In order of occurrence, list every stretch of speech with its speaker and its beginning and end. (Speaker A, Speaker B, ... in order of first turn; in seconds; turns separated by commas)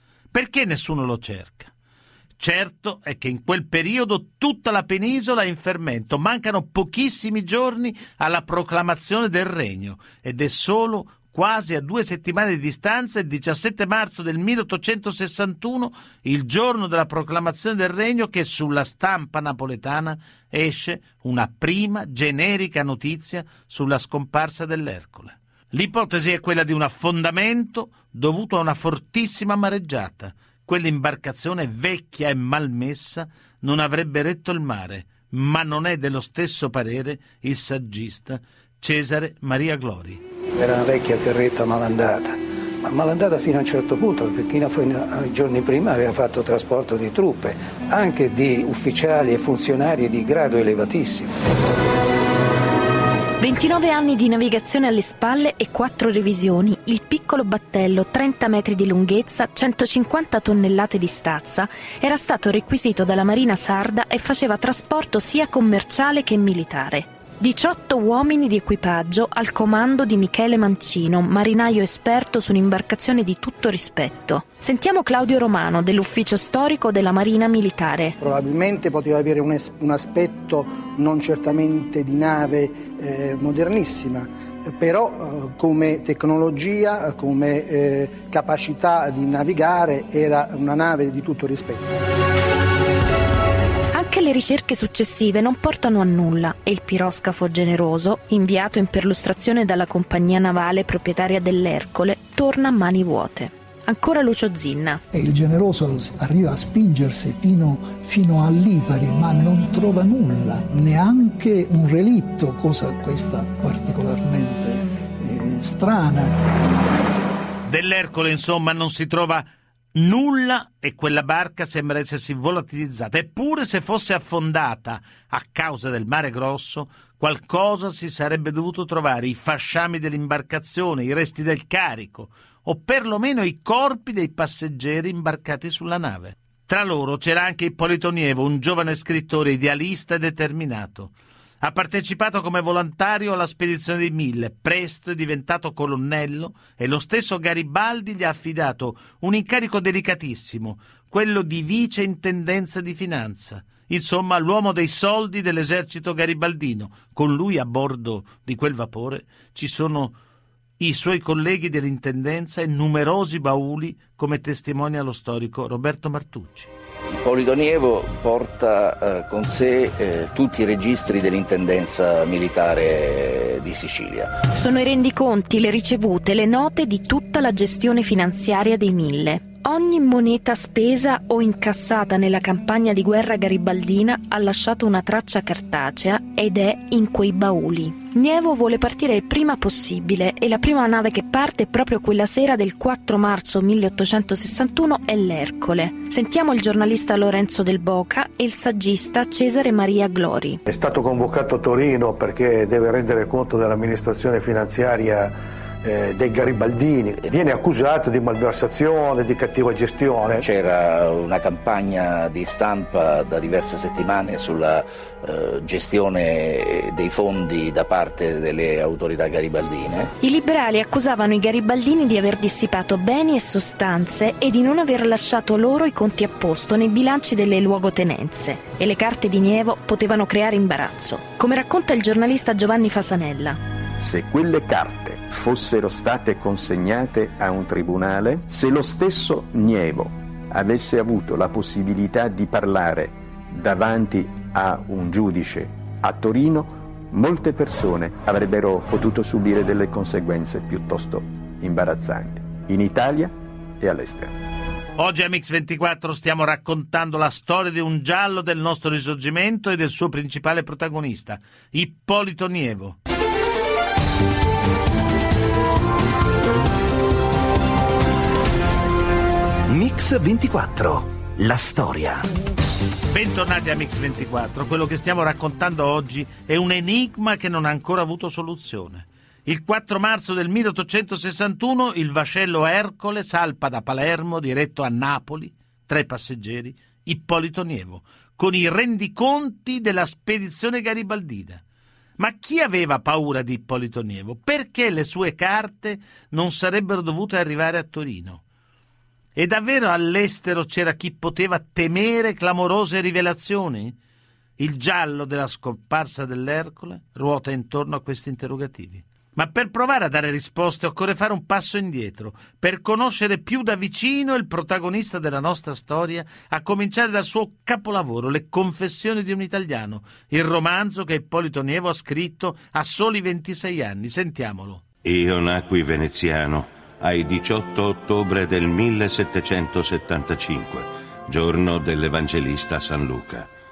Speaker A: 0.3-1.7, Speaker A: 2.4-40.2, Speaker B: 40.5-51.4, Speaker C: 53.4-78.2, Speaker D: 78.2-91.9, Speaker C: 93.9-105.0, Speaker E: 105.1-116.5, Speaker A: 117.7-160.2, Speaker A: 160.8-166.7, Speaker F: 167.1-174.3, Speaker C: 174.5-200.6, Speaker G: 200.7-210.4, Speaker F: 210.4-220.1, Speaker C: 220.2-233.6, Speaker H: 234.0-254.4, Speaker A: 255.0-263.0, Speaker I: 269.7-272.3, Speaker A: 273.1-291.6, Speaker A: 292.2-298.4, Speaker A: 299.3-303.9, Speaker A: 304.6-324.8, Speaker J: 325.0-333.5